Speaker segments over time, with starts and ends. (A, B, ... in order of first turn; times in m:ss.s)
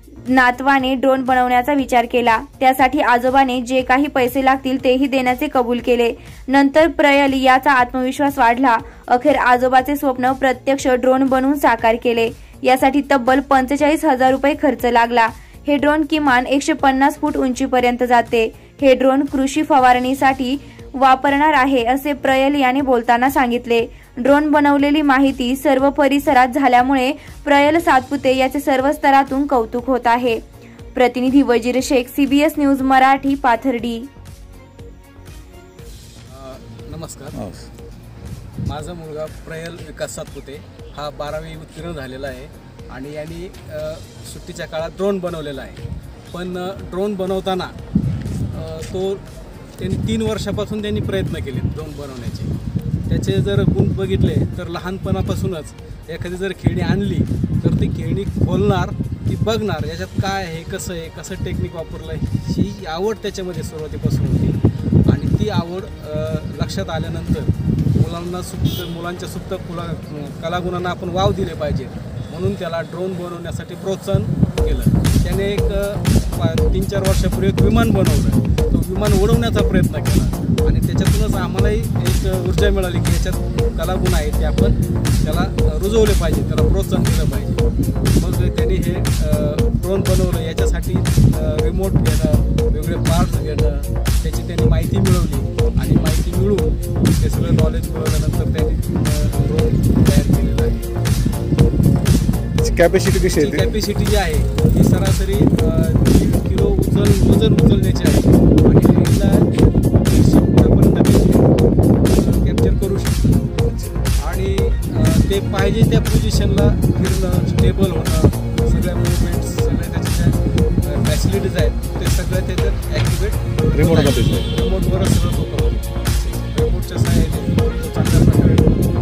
0:00.2-0:30.4 A
0:30.9-0:34.1 A
0:36.3-0:37.6 B
0:38.6-0:45.8 B
0:46.3-0:47.7 B
0:48.5-0:49.2 B
0:49.8-0:52.5 B
0:53.1-1:40.9 B
1:42.6-1:43.7 C
1:43.3-1:51.5 B
1:52.1-1:53.3 B
1:53.7-1:53.9 C
1:54.2-2:08.8 B
2:03.7-2:04.5 C